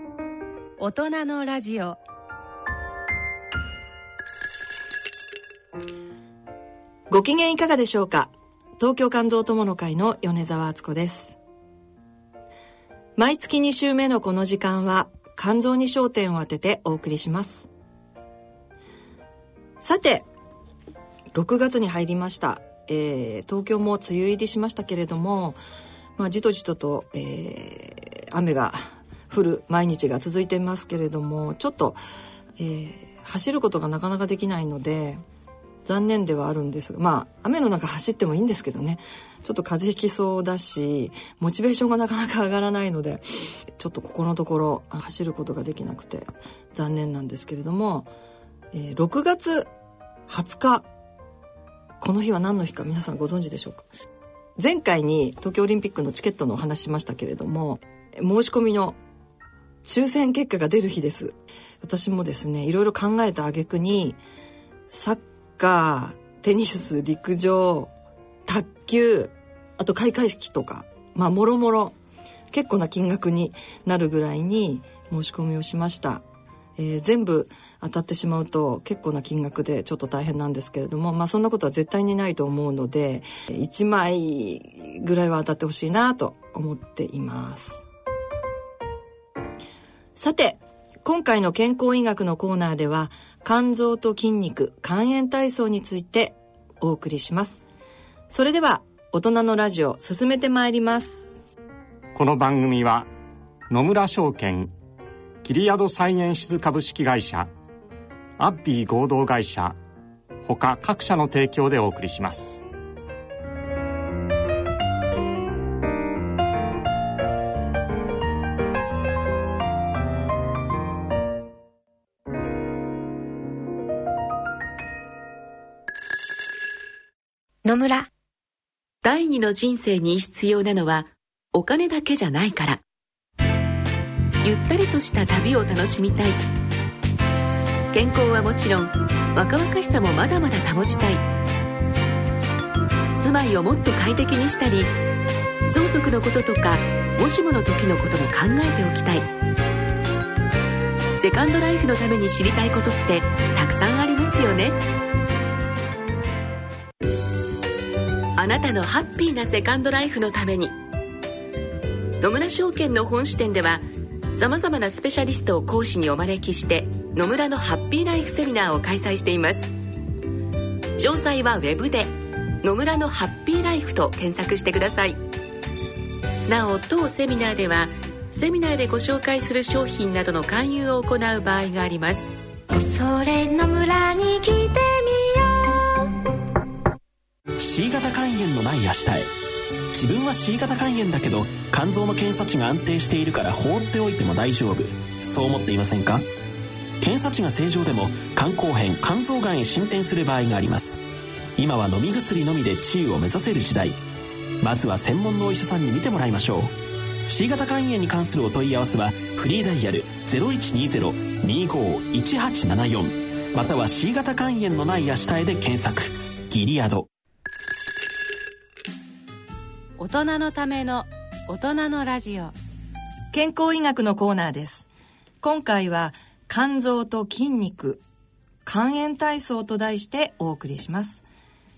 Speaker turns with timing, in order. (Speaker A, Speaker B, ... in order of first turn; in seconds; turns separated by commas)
Speaker A: 0.8-2.0, Speaker B: 7.1-11.4, Speaker B: 13.2-17.7, Speaker B: 19.8-20.3, Speaker B: 21.3-25.6, Speaker B: 26.2-32.0, Speaker B: 32.6-35.2, Speaker B: 35.8-48.1, Speaker B: 48.7-49.7, Speaker B: 50.3-50.9, Speaker B: 52.0-53.9, Speaker B: 54.6-59.0, Speaker B: 59.8-64.2, Speaker B: 64.9-67.9, Speaker B: 68.5-72.0, Speaker B: 72.5-76.2, Speaker B: 76.8-87.8, Speaker B: 90.2-97.6, Speaker B: 98.3-101.4, Speaker C: 102.1-103.1, Speaker C: 103.7-104.7, Speaker C: 105.4-107.5, Speaker C: 108.4-109.8, Speaker C: 110.5-112.6, Speaker D: 127.6-128.1, Speaker E: 129.0-132.8, Speaker E: 134.4-136.4, Speaker E: 137.9-141.2, Speaker E: 143.1-144.9, Speaker E: 145.7-149.3, Speaker E: 151.2-154.8, Speaker E: 158.4-160.7, Speaker E: 162.2-163.8, Speaker E: 164.3-169.7, Speaker E: 171.0-172.1, Speaker E: 172.6-175.2, Speaker E: 176.5-182.3, Speaker D: 182.7-186.1, Speaker F: 187.6-189.3, Speaker F: 189.9-196.3, Speaker F: 197.0-201.0, Speaker F: 201.6-204.0, Speaker F: 204.6-206.7, Speaker F: 207.3-217.1, Speaker A: 220.0-222.5, Speaker B: 223.3-224.9, Speaker B: 225.4-228.0, Speaker B: 228.7-231.2